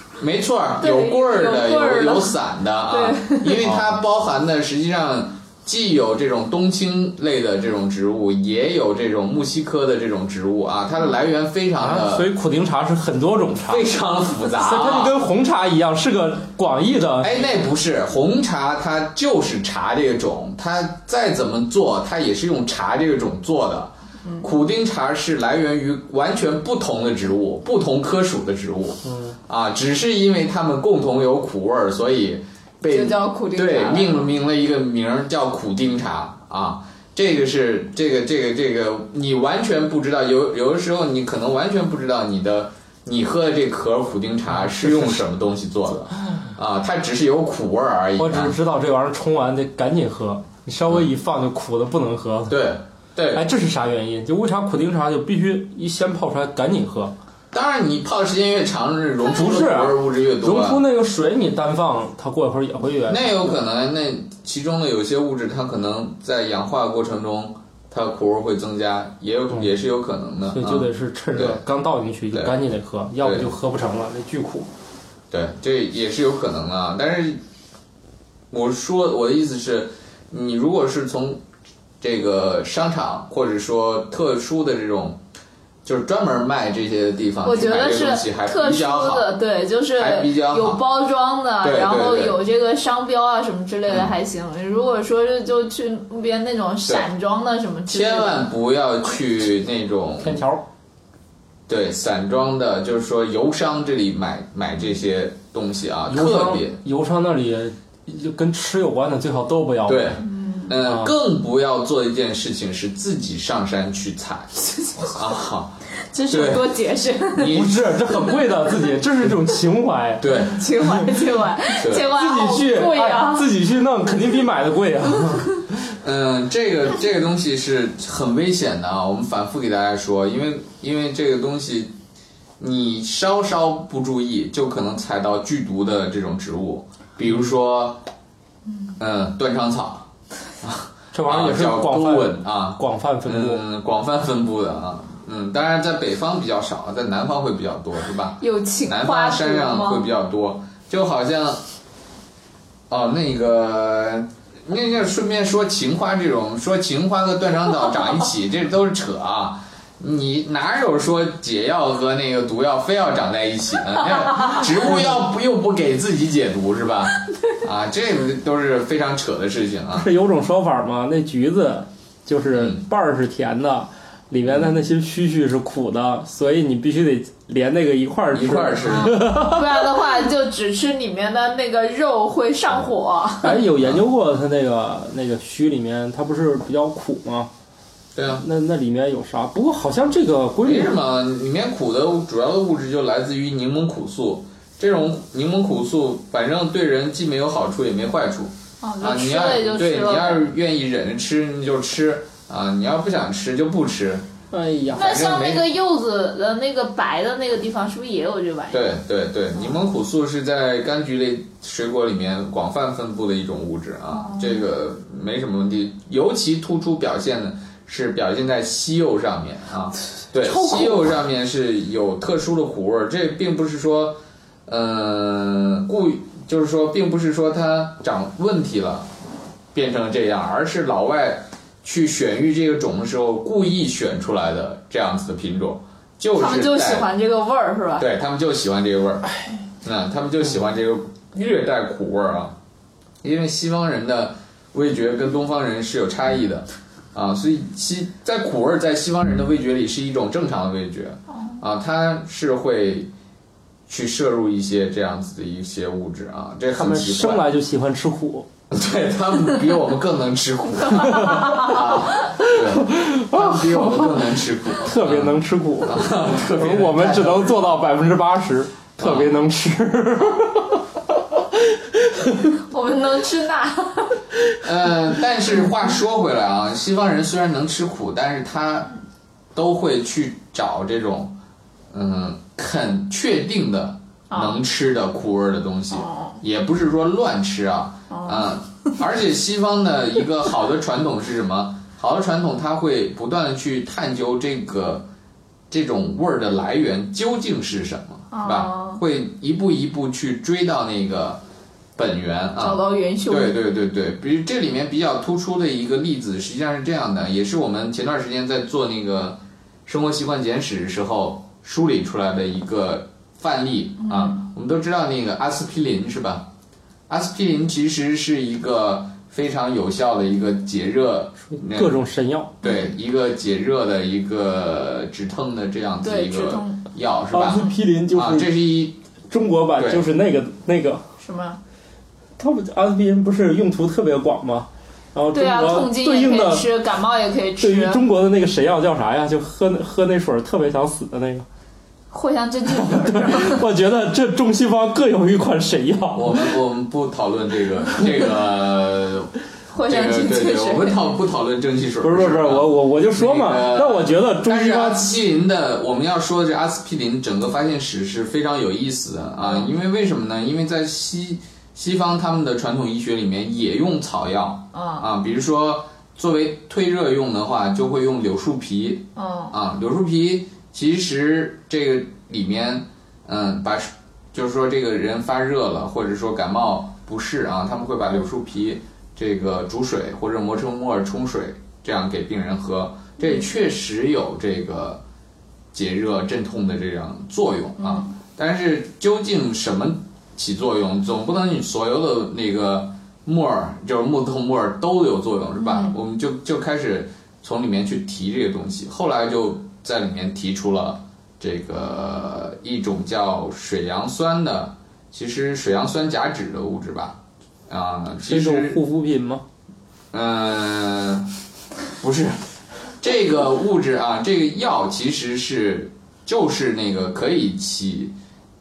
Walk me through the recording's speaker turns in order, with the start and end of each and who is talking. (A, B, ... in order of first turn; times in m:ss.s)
0:00.2-0:12.3 A
0:00.8-0:02.4 B
0:02.9-0:03.6 B
0:11.8-0:13.9 C
0:13.7-0:15.2 A
0:14.6-0:17.4 C
0:17.2-0:48.6 A
0:29.0-0:29.4 C
0:32.9-0:34.3 B
0:44.5-0:45.2 C
0:48.2-0:52.6 C
0:52.5-0:53.5 A
0:53.3-0:57.1 C
0:57.5-1:00.8 A
0:59.3-1:03.6 C
1:03.1-1:11.6 A
1:10.5-1:14.7 C
1:12.3-1:12.6 A
1:13.2-1:13.5 A
1:15.3-1:17.4 A
1:18.5-1:21.4 A
1:22.0-1:25.2 A
1:25.8-1:29.3 A
1:27.4-1:38.5 B
1:30.0-1:30.8 A
1:31.6-1:32.4 A
1:33.9-1:34.1 A
1:37.9-1:40.4 A
1:40.2-1:40.6 C
1:41.7-1:46.8 A
1:46.1-1:50.2 C
1:49.8-1:54.5 A
1:50.2-1:50.7 B
1:50.8-1:51.1 C
1:55.1-1:56.7 A
1:56.1-1:57.6 B
1:57.4-1:57.8 A
1:57.4-2:01.1 C
2:00.2-2:00.6 A
2:00.3-2:03.5 B
2:01.8-2:02.1 A
2:02.0-2:05.7 C
2:06.0-2:11.9 A
2:12.6-2:18.0 A
2:19.0-2:20.1 A
2:20.6-2:31.6 A
2:21.1-2:23.6 C
2:28.4-2:30.0 B
2:32.9-2:50.1 A
2:49.9-2:59.6 C
2:52.5-2:52.8 A
2:54.5-2:54.7 A
2:58.3-2:59.2 A
2:58.9-3:03.6 B
3:03.4-3:07.5 C
3:08.1-3:08.4 A
3:08.4-3:11.0 C
3:10.6-3:24.2 A
3:18.8-3:20.4 B
3:24.5-3:25.1 C
3:24.9-3:25.7 A
3:24.9-3:28.9 B
3:28.7-3:49.1 A
3:34.1-3:34.6 B
3:40.5-3:40.9 C
3:49.7-3:57.1 A
3:56.3-3:58.1 B
3:58.0-3:59.3 A
3:59.8-4:02.6 A
4:03.2-4:13.1 A
4:13.9-4:17.5 A
4:16.8-4:18.5 C
4:18.7-4:27.8 A
4:21.4-4:21.7 B
4:22.7-4:24.2 C
4:24.8-4:30.8 C
4:29.0-4:29.4 A
4:32.1-4:32.5 C
4:32.7-4:34.2 B
4:34.6-4:38.9 A
4:39.5-4:41.4 A
4:41.9-4:55.1 A
4:44.3-4:44.6 B
4:45.9-4:46.4 B
4:48.1-4:48.5 B
4:55.7-5:01.4 A
4:58.3-4:59.0 B
5:02.0-5:16.5 A
5:02.6-5:03.6 B
5:14.0-5:14.4 B
5:17.1-5:22.0 A
5:21.5-5:22.5 C
5:22.6-5:29.0 A
5:22.6-5:22.9 B
5:26.0-5:26.8 B
5:27.3-5:28.5 C
5:29.3-5:31.0 C
5:29.8-5:30.0 A
5:31.2-5:31.6 B
5:32.4-5:36.6 C
5:35.3-5:38.0 B
5:37.6-5:41.4 C
5:42.1-5:43.6 B
5:42.8-5:46.4 C
5:46.1-5:49.3 A
5:49.7-5:51.1 B
5:49.9-6:25.0 A
5:52.0-5:55.1 C
5:59.4-5:59.7 B
6:04.7-6:05.1 B
6:09.2-6:09.5 B
6:25.7-6:48.8 A
6:27.8-6:28.1 B
6:35.6-6:36.0 B
6:48.2-6:49.4 C
6:50.1-6:51.3 A
6:52.0-6:52.4 A
6:53.0-6:58.1 A